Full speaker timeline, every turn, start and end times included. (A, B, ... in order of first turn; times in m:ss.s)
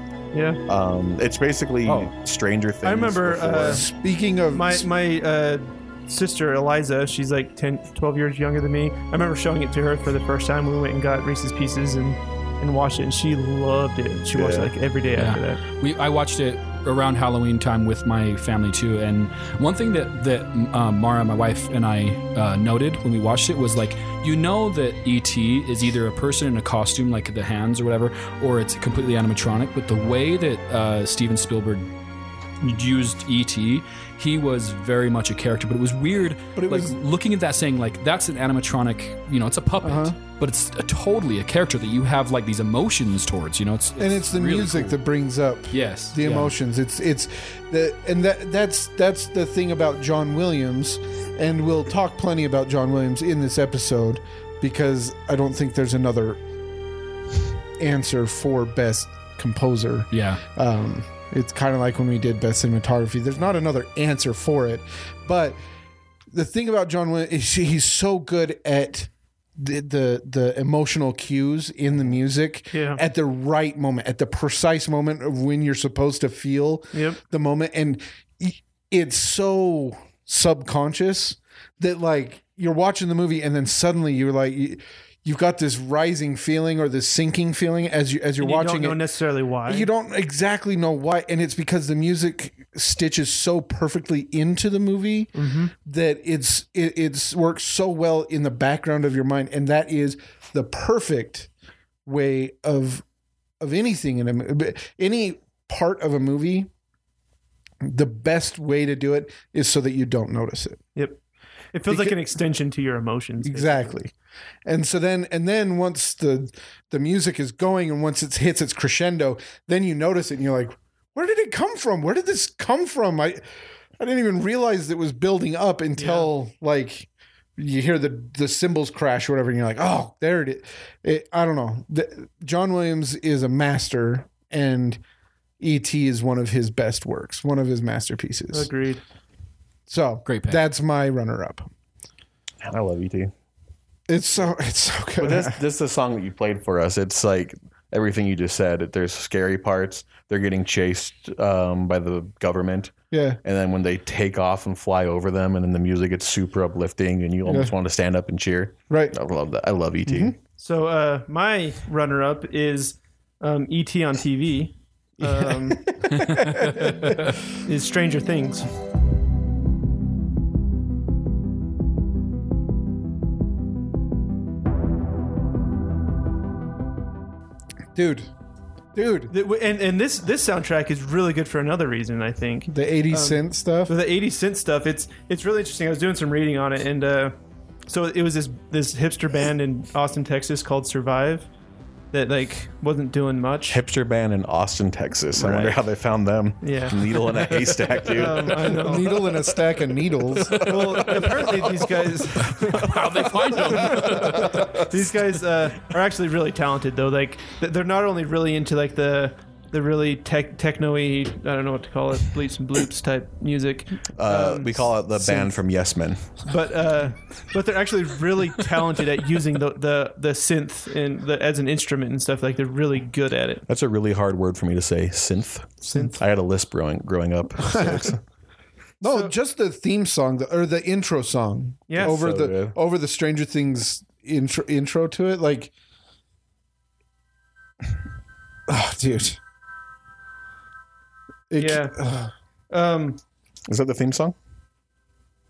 0:00.3-0:00.6 A
0:00.7-0:03.8 B
0:02.8-0:03.8 A
0:03.6-0:04.9 C
0:04.5-0:15.6 A
0:14.3-0:14.7 B
0:15.2-0:31.9 D
0:32.6-0:45.0 D
0:36.6-0:37.0 C
0:39.8-0:40.2 C
0:44.0-0:56.4 C
0:45.7-0:46.5 D
0:57.8-1:05.6 C
1:00.1-1:00.4 D
1:06.3-1:29.0 C
1:12.7-1:13.0 A
1:16.9-1:17.2 A
1:28.4-1:29.9 A
1:29.6-1:35.3 C
1:35.4-1:35.7 A
1:35.8-1:41.5 C
1:42.0-1:43.0 C
1:43.6-1:46.7 C
1:47.8-1:50.8 C
1:51.7-1:53.9 A
1:51.9-1:52.2 C
1:53.4-1:54.1 C
1:54.6-2:03.4 C
2:04.0-2:15.0 C
2:06.0-2:06.3 A
2:15.6-2:18.7 C
2:18.5-2:19.0 A
2:19.9-2:21.7 C
2:20.3-2:20.6 D
2:22.6-2:23.3 B
2:24.1-2:25.6 C
2:25.2-2:40.3 B
2:33.1-2:33.4 C
2:37.5-2:37.7 C
2:38.9-2:39.1 C
2:40.0-2:40.4 C
2:40.6-2:45.9 A
2:45.2-2:47.1 C
2:46.1-2:46.9 D
2:47.6-2:48.7 A
2:58.0-2:58.3 C
2:59.0-2:59.3 C
2:59.3-3:07.4 A
3:02.7-3:03.9 C
3:07.9-3:11.5 A
3:12.1-3:13.8 A
3:13.7-3:18.8 B
3:15.4-3:15.8 A
3:16.6-3:19.3 A
3:18.6-3:21.1 C
3:20.5-3:21.8 B
3:20.6-3:23.0 A
3:22.4-3:24.8 B
3:22.7-3:24.6 D
3:24.1-3:35.5 A
3:34.2-3:36.4 B
3:36.4-3:43.6 A
3:43.7-3:48.2 B
3:45.9-3:46.2 A
3:47.6-3:48.1 C
3:49.0-3:55.7 C
3:49.0-3:49.3 A
3:51.9-3:52.2 A
3:52.0-3:52.8 B
3:58.7-3:59.4 C
4:01.5-4:02.3 C
4:01.6-4:02.0 A
4:02.7-4:03.2 A
4:03.7-4:04.4 B